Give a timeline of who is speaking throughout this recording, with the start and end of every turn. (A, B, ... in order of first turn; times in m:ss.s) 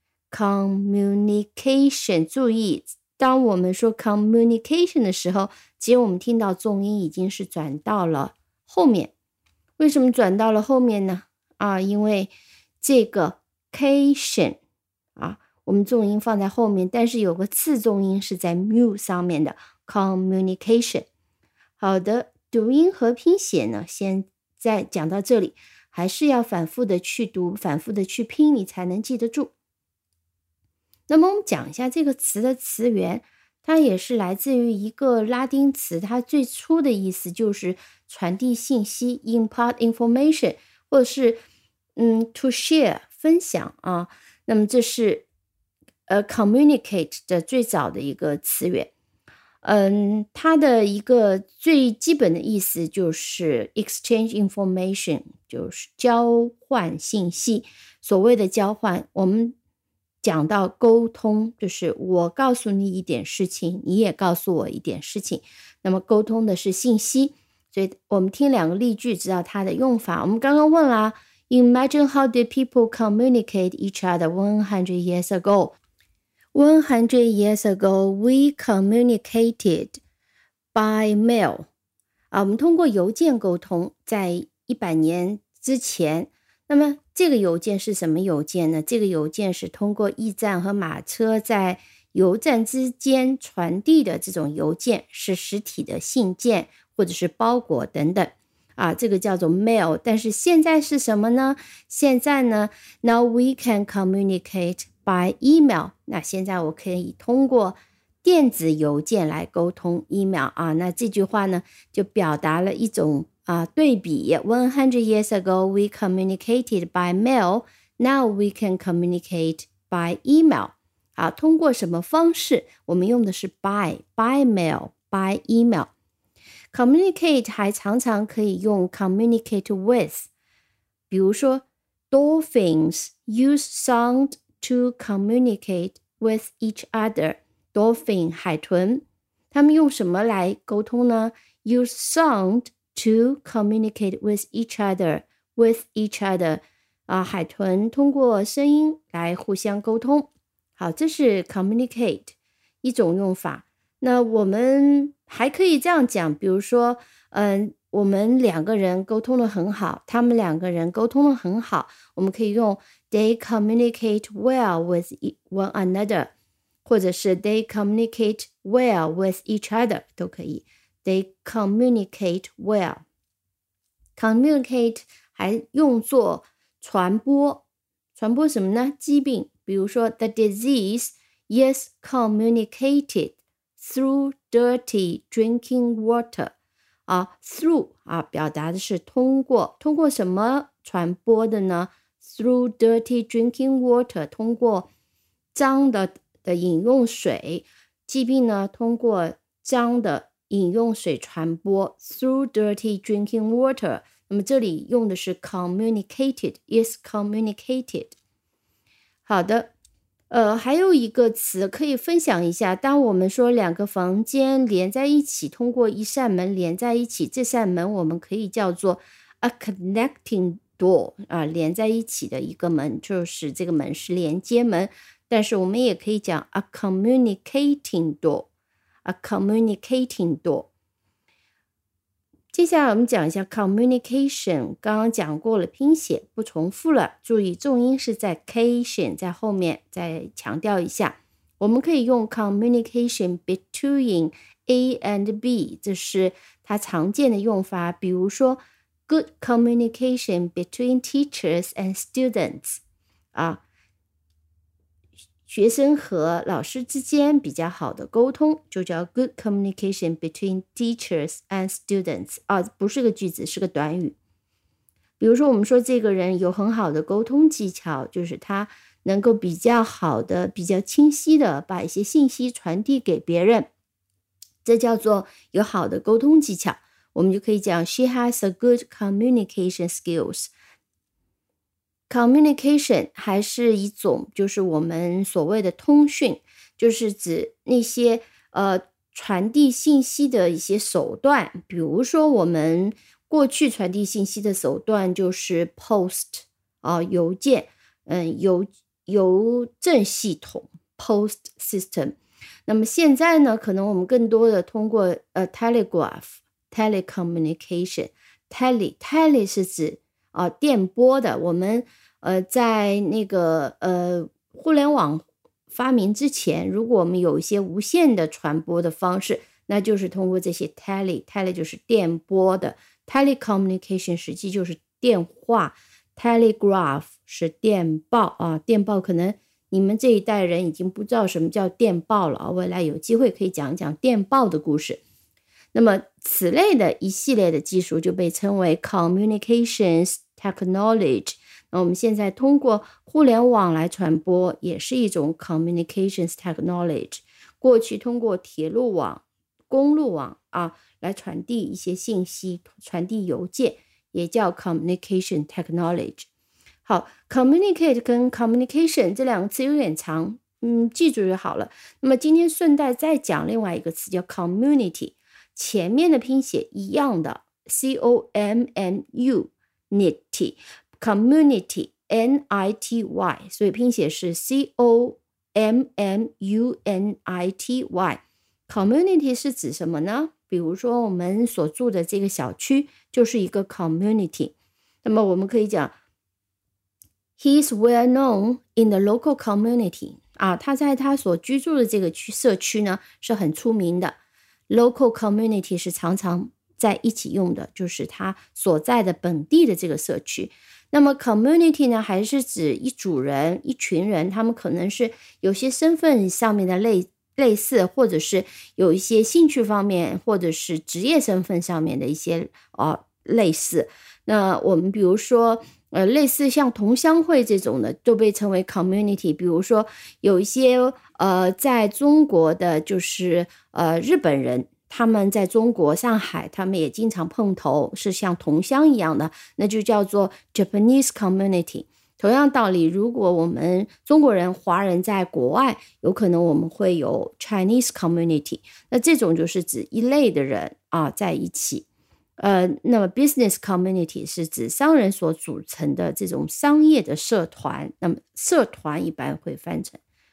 0:00.3-0:09.1 A
0:09.8-0:14.6 A
0:15.2-0:21.1 A
0:21.8-0:29.5 A
0:31.1-0:41.4 A
0:42.0-0:45.3 A
0:46.1-0:48.9 A
0:49.6-0:59.6 A
1:00.2-1:15.8 A
1:16.5-1:20.0 A
1:20.7-1:21.7 A
1:22.3-2:05.9 A
2:06.7-2:10.3 A
2:11.1-2:46.3 A
2:46.8-2:53.0 A
2:54.2-2:57.6 A
2:58.2-3:06.5 A
3:07.1-3:14.9 A
3:15.5-3:28.2 A
3:29.2-3:29.7 A
3:30.3-3:48.5 A
3:49.0-3:50.7 A
3:52.5-4:12.8 A
4:13.3-4:13.6 A
4:15.5-4:24.2 A
4:25.2-4:33.7 A
4:34.6-4:40.5 A
4:42.1-5:35.0 A
5:35.7-5:56.3 A
5:56.8-6:25.9 A
6:27.4-6:34.2 A
6:34.7-7:21.9 A
7:22.4-7:30.0 A